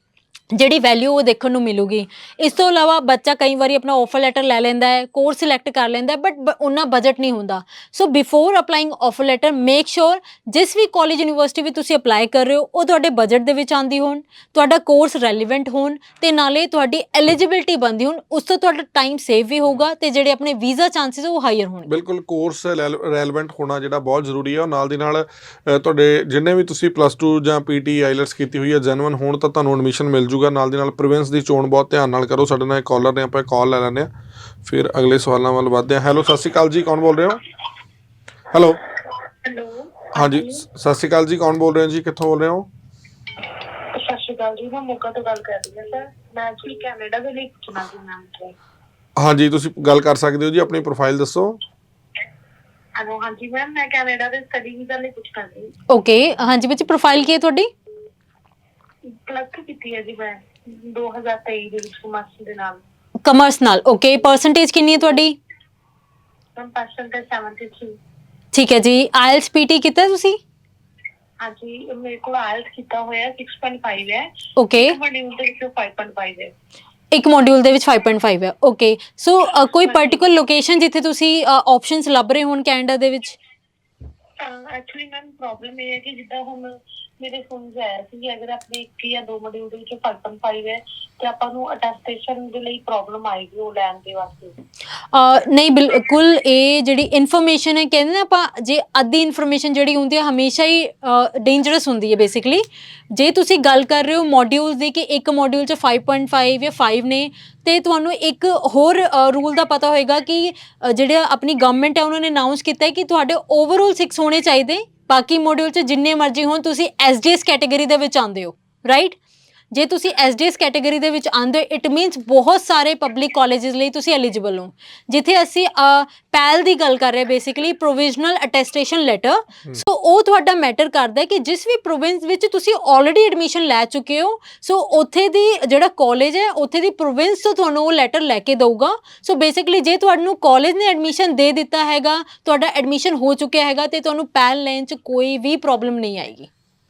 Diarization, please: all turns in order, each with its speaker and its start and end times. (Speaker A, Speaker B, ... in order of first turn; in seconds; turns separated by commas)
Speaker A: 0.5-21.9, Speaker B: 21.9-34.1, Speaker B: 34.6-37.4, Speaker B: 38.5-38.8, Speaker C: 39.4-40.6, Speaker B: 40.1-42.7, Speaker C: 43.9-48.5, Speaker B: 49.2-51.6, Speaker C: 53.0-55.7, Speaker A: 55.9-57.7, Speaker C: 59.3-62.8, Speaker A: 63.2-65.4, Speaker C: 66.6-68.0, Speaker A: 68.5-70.4, Speaker C: 71.4-76.5, Speaker A: 74.6-75.0, Speaker A: 77.1-83.4, Speaker C: 79.7-80.2, Speaker C: 84.4-94.5, Speaker A: 95.1-119.2, Speaker A: 119.7-146.5